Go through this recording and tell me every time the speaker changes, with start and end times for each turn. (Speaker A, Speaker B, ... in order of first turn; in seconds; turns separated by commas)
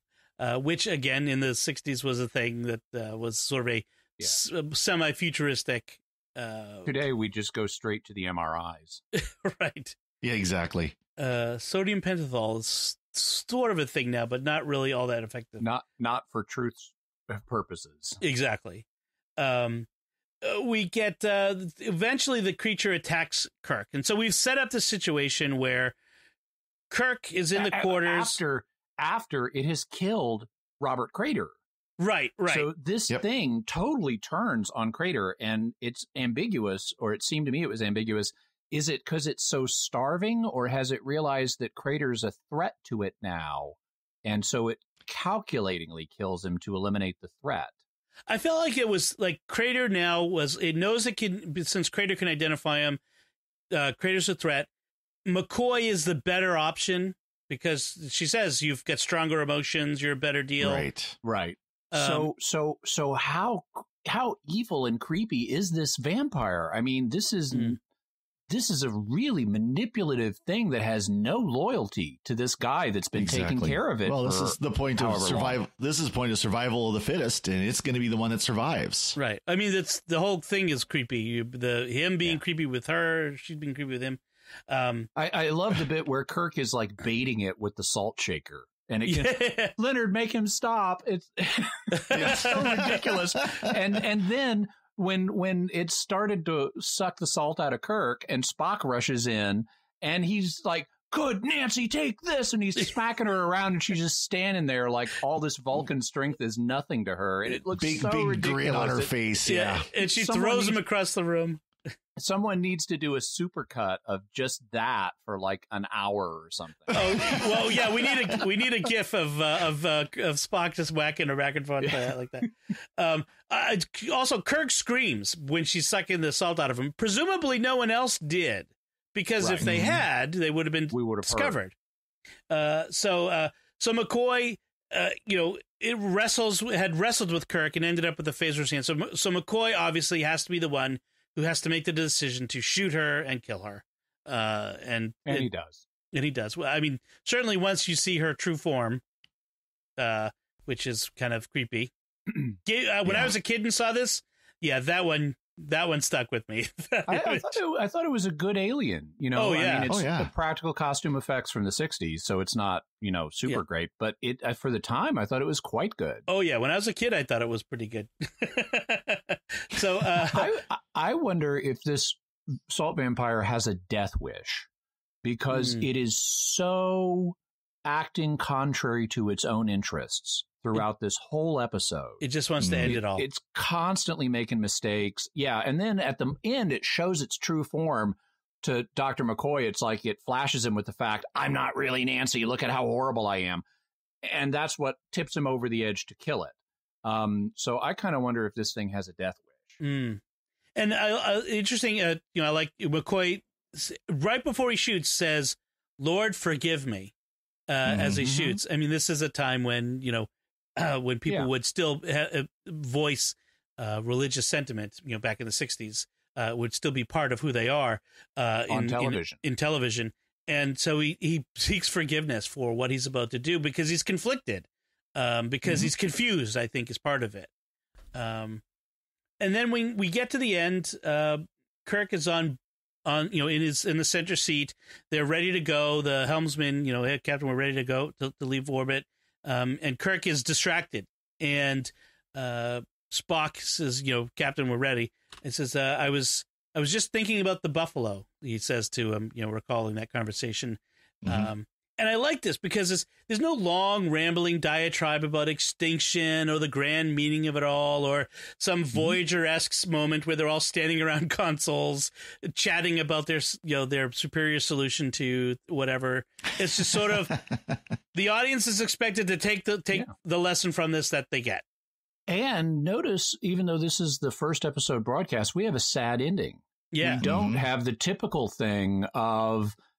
Speaker A: 0.4-7.0, Speaker B: 6.8-9.0, Speaker A: 9.1-10.0, Speaker C: 10.2-10.9, Speaker A: 11.2-15.7, Speaker B: 15.6-18.2, Speaker A: 18.2-18.8, Speaker A: 19.4-19.9, Speaker A: 20.4-25.9, Speaker A: 26.9-28.4, Speaker B: 27.5-31.5, Speaker A: 32.0-32.7, Speaker B: 32.5-47.7, Speaker A: 48.3-53.0, Speaker A: 53.7-54.7, Speaker A: 55.2-60.9, Speaker C: 60.6-61.2, Speaker B: 61.2-67.8, Speaker A: 61.9-62.3, Speaker A: 67.5-67.8, Speaker B: 68.5-75.6, Speaker C: 73.1-79.2, Speaker A: 79.2-85.1, Speaker B: 85.2-109.1, Speaker A: 89.0-89.7, Speaker A: 91.9-92.8, Speaker C: 92.1-93.7, Speaker C: 107.7-109.9, Speaker A: 109.5-111.6, Speaker B: 110.0-110.8, Speaker B: 112.2-118.4, Speaker A: 116.9-131.7, Speaker C: 117.1-117.4, Speaker B: 121.8-122.5, Speaker B: 129.4-129.7, Speaker C: 129.6-130.0, Speaker B: 130.9-131.6, Speaker A: 132.5-145.5, Speaker B: 145.2-145.8, Speaker A: 146.1-149.0, Speaker A: 150.0-151.9, Speaker A: 152.5-157.6, Speaker C: 153.0-153.3, Speaker B: 157.1-166.2, Speaker A: 159.3-159.9, Speaker C: 159.9-160.3, Speaker A: 166.3-170.6, Speaker B: 170.2-174.7, Speaker B: 175.2-182.2, Speaker A: 175.5-175.9, Speaker A: 182.2-183.3, Speaker C: 182.6-183.0, Speaker B: 182.8-193.6, Speaker B: 194.2-199.8, Speaker A: 199.8-200.2, Speaker A: 200.8-207.1, Speaker A: 207.7-227.5, Speaker C: 207.8-208.2, Speaker B: 208.1-208.6, Speaker B: 218.7-219.4, Speaker A: 228.1-228.6, Speaker A: 229.4-267.4, Speaker C: 251.2-251.5, Speaker C: 266.9-267.6, Speaker A: 268.1-271.6, Speaker B: 272.3-279.7, Speaker A: 276.9-277.2, Speaker C: 277.2-277.6